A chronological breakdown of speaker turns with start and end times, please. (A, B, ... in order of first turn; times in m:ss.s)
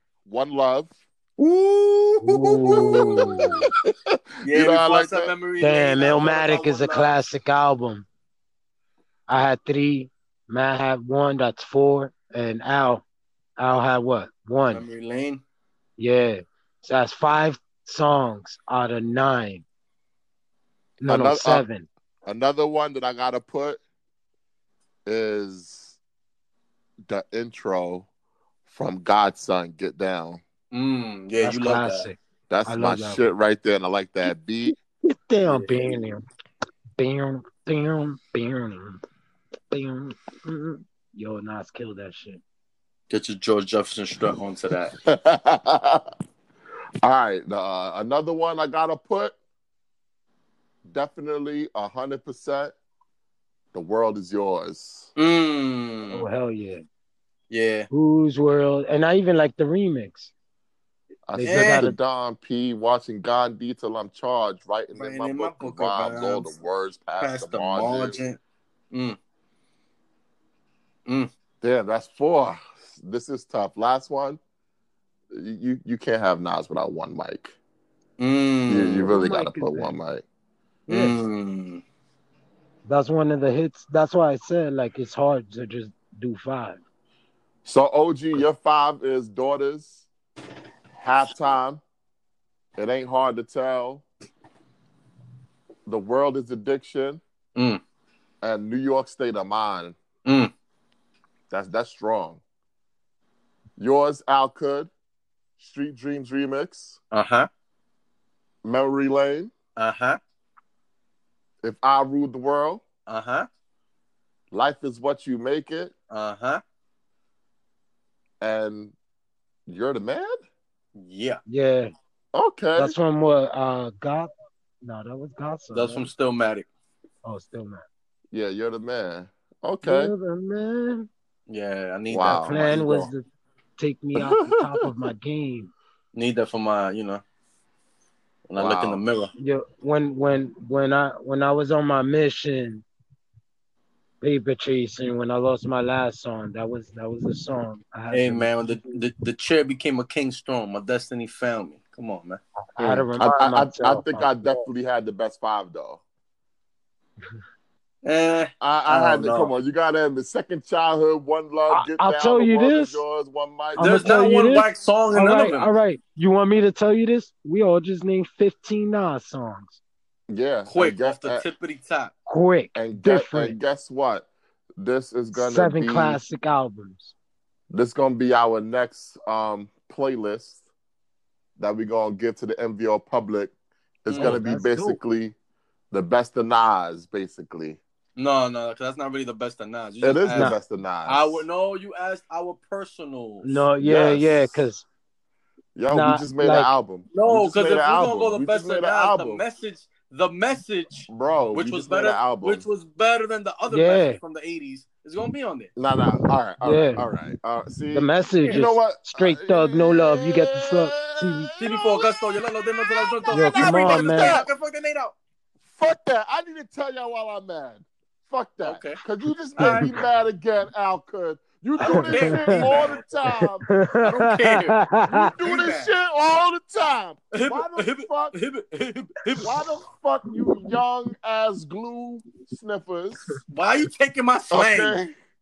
0:00.2-0:05.3 A
0:02.2-0:03.6 B
0:02.4-0:03.6 C
0:04.4-0:07.2 C
0:05.6-0:08.0 B
0:09.3-0:13.0 B
0:13.6-0:14.9 B
0:14.7-0:15.4 C
0:16.0-0:19.6 B
0:21.0-0:21.9 B
0:21.1-0:21.6 A
0:22.2-0:23.8 A
0:25.0-0:26.0 A
0:27.1-0:28.1 A
0:28.7-0:30.4 A
0:30.7-0:32.1 C
0:31.4-0:33.2 B
0:32.5-0:34.7 A
0:35.1-0:36.2 B
0:37.0-0:39.0 B
0:39.7-0:42.4 B
0:43.1-0:44.9 C
0:45.0-0:46.0 A
0:47.0-0:49.4 A
0:50.9-0:52.7 A
0:53.7-0:55.1 A
0:55.2-0:56.2 C
0:56.1-0:56.8 B
0:57.5-0:57.9 C
0:57.9-1:00.3 B
1:01.3-1:08.2 A
1:01.3-1:02.0 B
1:01.4-1:01.8 C
1:04.9-1:06.5 C
1:07.2-1:08.4 C
1:08.9-1:09.2 C
1:11.6-1:14.4 A
1:15.3-1:17.5 A
1:18.2-1:19.2 C
1:18.7-1:20.2 A
1:19.2-1:20.0 B
1:20.9-1:21.2 B
1:20.9-1:21.8 C
1:22.8-1:26.8 B
1:27.6-1:30.0 A
1:31.0-1:31.8 A
1:32.8-1:34.0 A
1:35.8-1:37.2 A
1:37.5-1:37.8 C
1:38.4-1:40.0 A
1:40.2-1:40.5 C
1:41.5-1:42.4 A
1:43.8-1:44.9 A
1:45.6-1:47.0 A
1:47.1-1:47.5 C
1:48.6-1:49.5 A
1:49.8-1:50.2 C
1:51.6-1:52.8 A
1:53.1-1:53.5 C
1:54.5-1:55.9 A
1:56.1-1:56.6 C
1:58.4-1:58.9 A
1:59.7-2:00.3 A
2:01.0-2:01.4 C
2:01.5-2:01.9 B
2:02.3-2:03.0 A
2:02.8-2:04.3 B
2:04.8-2:06.1 B
2:05.7-2:06.7 C
2:07.2-2:07.8 B
2:08.3-2:10.1 A
2:09.8-2:11.1 B
2:11.5-2:12.5 C
2:12.1-2:13.1 A
2:12.3-2:13.2 B
2:13.8-2:15.7 B
2:14.2-2:14.9 A
2:16.1-2:17.2 C
2:18.5-2:19.3 C
2:18.6-2:19.0 A
2:19.4-2:22.8 B
2:24.2-2:28.5 B
2:28.1-2:32.4 C
2:32.8-2:34.6 B
2:32.8-2:36.0 A
2:38.0-2:39.5 C
2:38.6-2:44.1 A
2:41.7-2:43.0 B
2:43.8-2:49.8 B
2:43.8-2:45.7 C
2:50.3-2:51.4 A
2:50.7-2:52.1 C
2:52.3-2:53.6 B
2:52.7-2:56.2 A
2:55.3-2:57.1 B
2:57.7-3:00.6 A
3:01.6-3:03.5 A
3:04.0-3:05.3 A
3:04.1-3:04.4 C
3:04.2-3:05.0 B
3:05.9-3:07.8 A
3:08.2-3:10.5 C
3:10.0-3:11.4 A
3:11.0-3:13.6 C
3:13.4-3:14.8 B
3:13.8-3:14.6 A
3:15.8-3:19.4 A
3:15.9-3:16.7 B
3:17.1-3:25.7 C
3:21.1-3:22.6 A
3:23.7-3:24.2 B
3:25.8-3:34.5 A
3:26.6-3:27.0 B
3:27.9-3:31.5 B
3:31.6-3:35.2 C
3:33.3-3:34.4 B
3:35.7-3:43.7 A
3:38.6-3:39.0 C
3:39.6-3:39.9 C
3:39.6-3:40.0 B
3:41.8-3:43.0 C
3:41.8-3:45.3 B
3:44.0-3:45.9 C
3:45.1-3:48.4 A
3:47.3-3:49.5 C
3:49.4-3:53.4 A
3:53.5-3:55.0 C
3:54.5-3:55.1 A